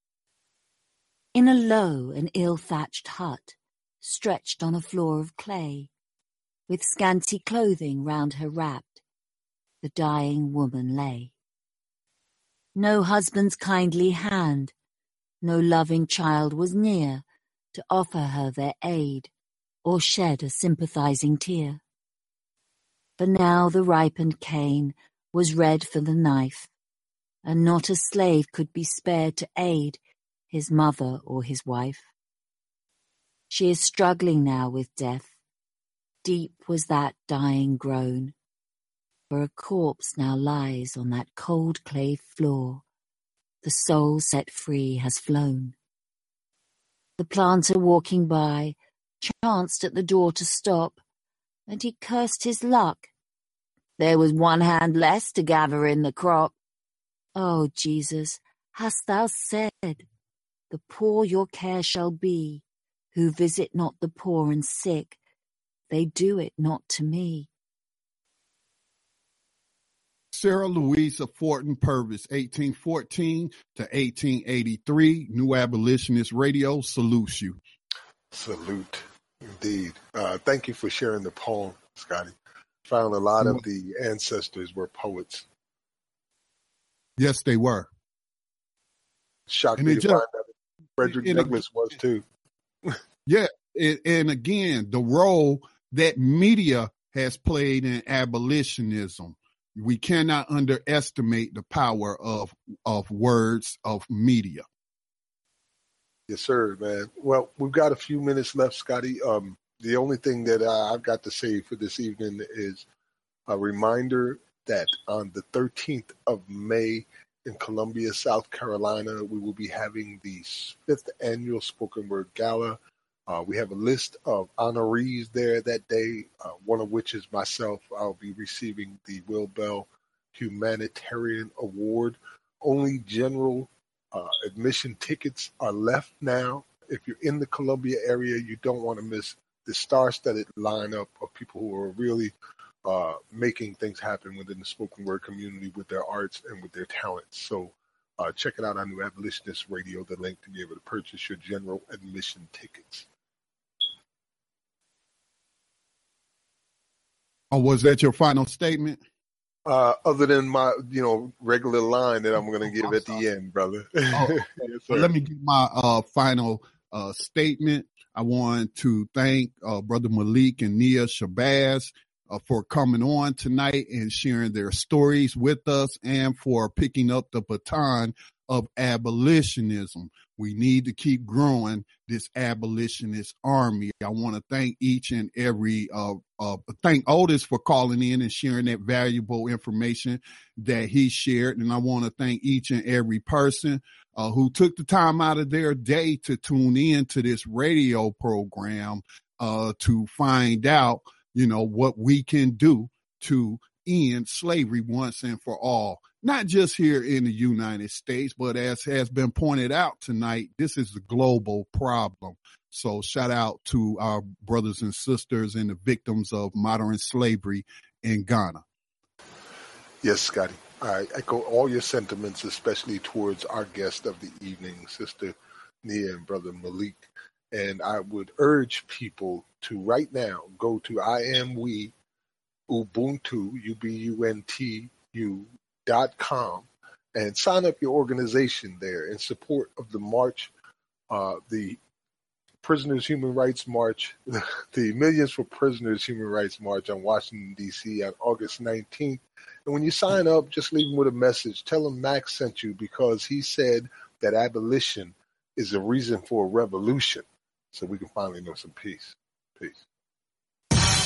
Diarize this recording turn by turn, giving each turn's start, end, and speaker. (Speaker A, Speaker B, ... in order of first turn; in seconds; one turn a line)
Speaker A: 1.3-5.9
Speaker A: 6.7-9.0
Speaker A: 9.8-11.3
Speaker A: 12.7-14.7
Speaker A: 15.4-19.3
Speaker A: 19.8-21.8
Speaker A: 23.2-26.7
Speaker A: 27.4-32.1
Speaker A: 33.5-35.3
Speaker A: 36.2-38.3
Speaker A: 39.3-42.8
Speaker A: 43.6-45.8
Speaker A: 47.2-51.0
Speaker A: 51.7-53.1
Speaker A: 54.0-56.5
Speaker A: 57.3-60.1
Speaker A: 60.7-65.2
Speaker A: 65.9-67.5
Speaker B: 70.3-77.6
Speaker C: 78.3-82.3
Speaker C: 82.8-85.5
Speaker B: 87.2-87.9
Speaker C: 89.5-92.2
Speaker B: 89.8-90.2
Speaker B: 91.0-91.6
Speaker B: 93.2-104.6
Speaker C: 106.3-112.8
Speaker C: 113.5-142.3
Speaker C: 142.8-153.1
Speaker B: 157.5-159.0
Speaker C: 159.7-165.1
Speaker B: 162.6-163.2
Speaker B: 164.1-218.6
Speaker C: 220.0-231.9
Speaker C: 232.7-240.5
Speaker C: 241.1-241.8
Speaker C: 242.6-259.8